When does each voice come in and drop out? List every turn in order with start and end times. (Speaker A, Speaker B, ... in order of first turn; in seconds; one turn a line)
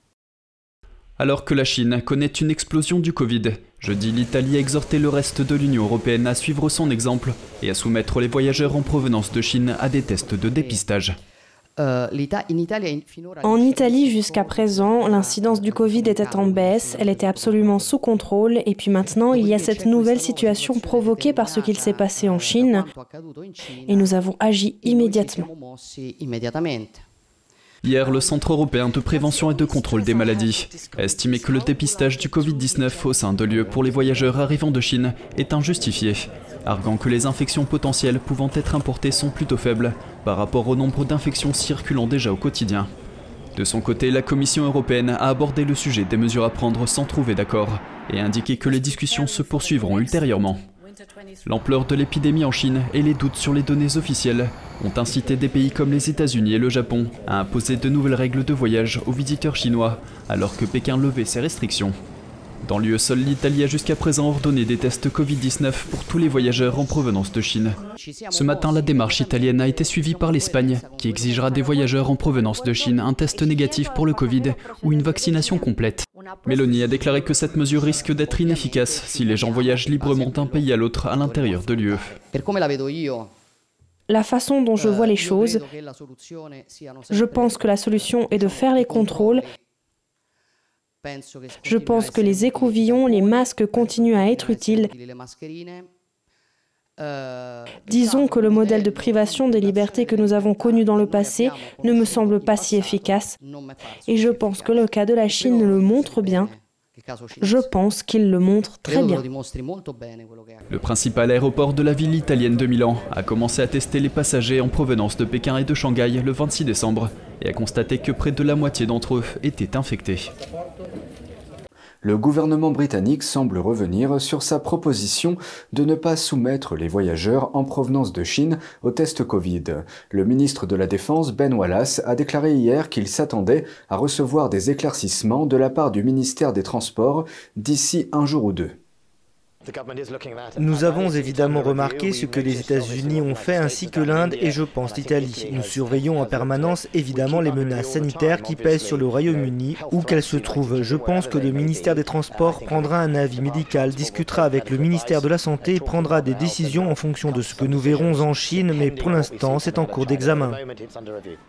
Speaker A: 1.2-11.2
Speaker B: 13.4-22.9
Speaker B: 23.8-25.5
Speaker A: 27.8-42.9
Speaker A: 43.5-50.6
Speaker A: 51.4-62.0
Speaker A: 62.6-67.8
Speaker A: 68.3-82.2
Speaker B: 84.1-85.6
Speaker B: 87.1-89.5
Speaker B: 91.6-94.9
Speaker B: 97.9-103.3
Speaker B: 104.1-106.5
Speaker B: 107.4-109.2
Speaker A: 110.7-120.3
Speaker C: 122.0-138.8
Speaker D: 140.6-160.6